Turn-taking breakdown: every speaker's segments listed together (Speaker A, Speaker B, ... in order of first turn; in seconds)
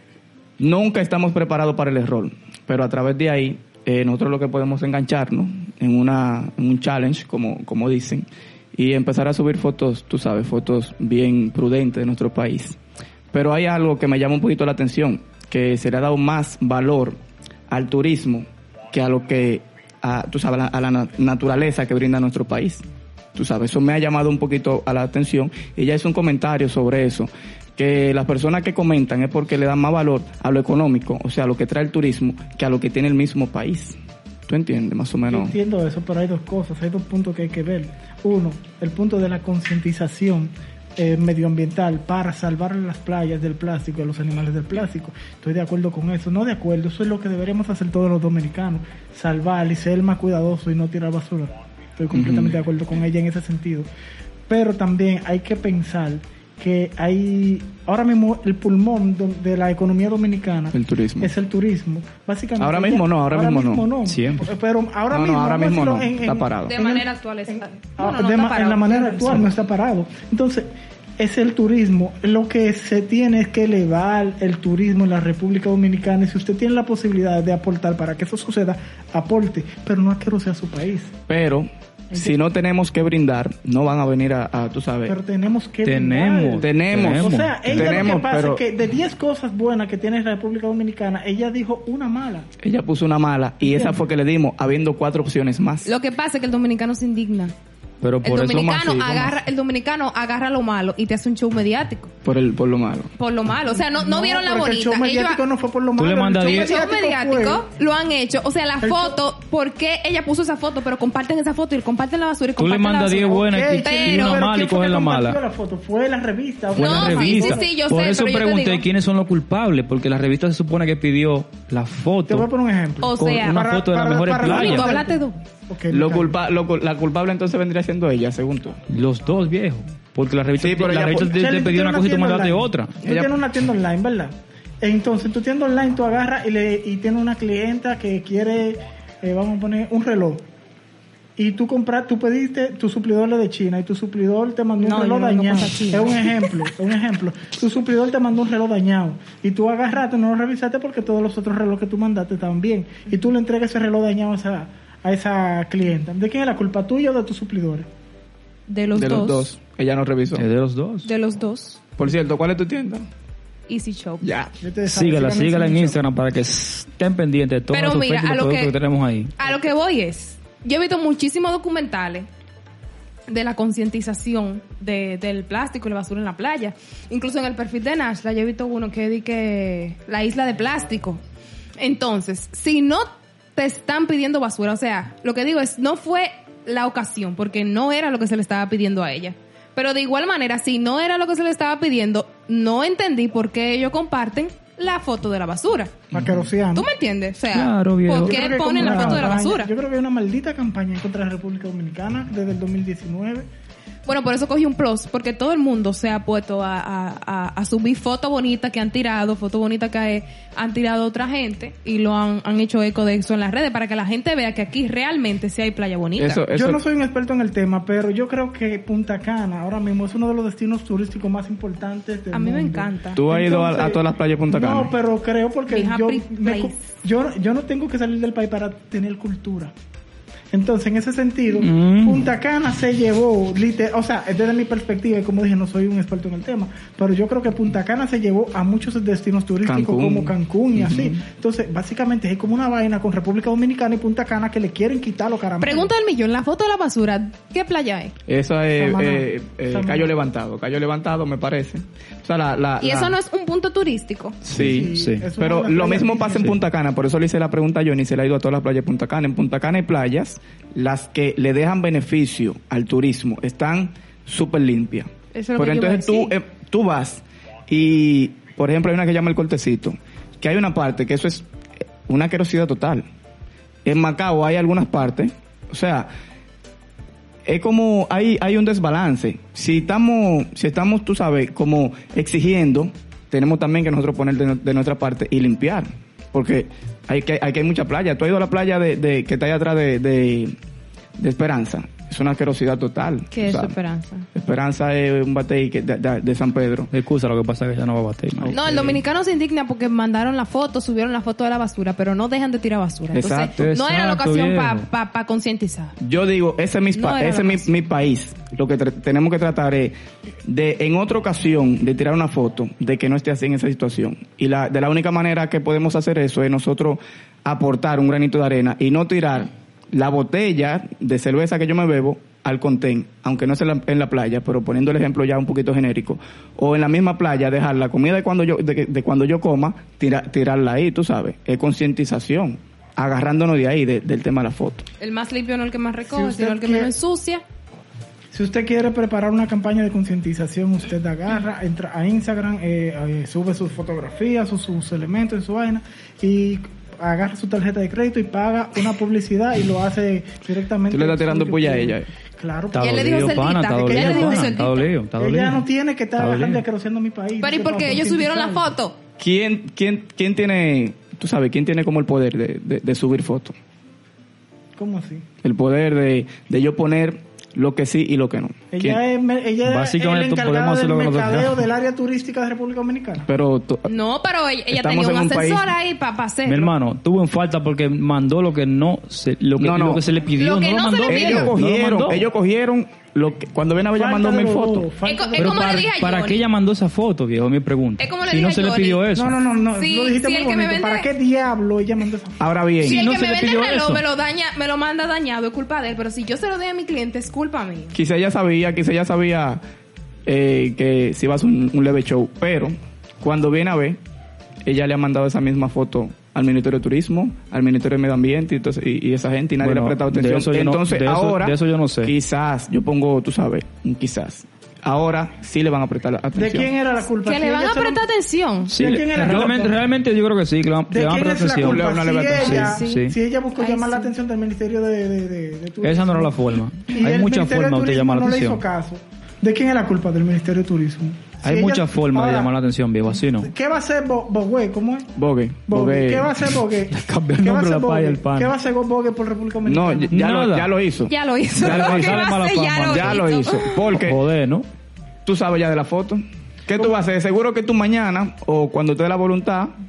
Speaker A: 0.6-12.8, 13.3-33.9, 34.5-35.5, 52.1-52.6, 60.7-61.3, 62.6-63.9, 65.1-66.7, 81.3-85.1, 86.6-88.6, 92.6-95.9, 98.3-99.4, 102.2-103.1, 125.9-128.8, 130.6-131.3, 133.0-133.3, 158.9-160.4, 162.0-163.1, 164.2-164.5, 196.1-196.4, 216.2-216.8, 223.1-224.9, 239.6-241.2, 248.3-253.2, 254.5-271.4, 272.1-273.1, 273.8-276.1, 277.4-290.6, 291.2-293.8, 294.3-296.9, 298.6-299.0, 303.1-303.5, 306.0-334.8, 350.9-352.1, 359.2-363.5, 365.4-369.0, 373.2-373.9, 374.7-375.7, 379.6-380.0, 381.1-384.9, 392.4-393.0, 397.9-399.6, 400.2-404.0, 404.6-416.7, 421.7-422.8, 435.1-436.3, 439.6-442.3, 442.9-444.2, 445.2-449.7
Speaker B: 35.2-53.9, 54.5-70.7, 71.2-81.1, 85.0-92.5, 93.6-94.0, 103.8-107.6, 108.8-109.2, 113.2-117.7, 122.3-126.4, 131.1-140.4, 141.4-157.9, 164.6-166.0, 196.1-196.9, 198.2-203.4, 216.5-229.7, 230.5-245.9, 248.7-250.2, 254.6-256.5, 336.0-336.9, 338.3-354.6, 355.2-358.6, 364.8-365.2, 368.7-373.3, 383.9-385.7, 389.1-392.8, 416.3-418.0, 418.8-419.8, 420.9-432.5, 433.1-435.1, 435.7-440.2
Speaker C: 64.0-64.4, 85.8-88.3, 98.0-99.1, 106.0-106.7, 112.6-115.4, 116.8-122.5, 123.2-124.9, 128.9-133.0, 160.3-161.1, 164.9-169.3, 197.5-198.5, 231.6-232.2, 254.4-255.3, 296.9-298.7, 303.5-304.9, 352.7-355.6, 356.1-356.6, 369.6-371.6, 376.4-382.3, 385.4-389.4, 393.0-394.0, 409.6-412.1, 418.7-421.8, 422.4-423.1, 425.8-428.6, 431.4-433.5, 436.9-438.5, 439.9-440.7, 441.6-443.2, 443.9-444.7
Speaker D: 66.7-69.5, 95.8-97.5, 98.2-102.1, 103.2-105.4, 106.4-114.4, 116.8-118.8, 123.0-123.6, 124.4-125.4, 144.8-146.5, 158.7-159.5, 161.0-161.8, 163.7-164.3, 167.7-168.7, 169.4-172.3, 173.3-181.2, 181.8-196.0, 196.7-199.7, 204.1-216.4, 222.3-223.2, 225.7-226.8, 245.6-248.1, 252.8-254.4, 265.3-266.4, 293.3-294.2, 298.5-305.9, 306.9-307.7, 335.0-337.4, 352.8-354.9, 357.4-359.0, 373.9-376.7, 380.4-381.5, 385.0-386.4, 388.0-389.0, 389.7-391.1, 392.8-397.9, 417.2-418.7, 422.4-424.1, 441.1-444.0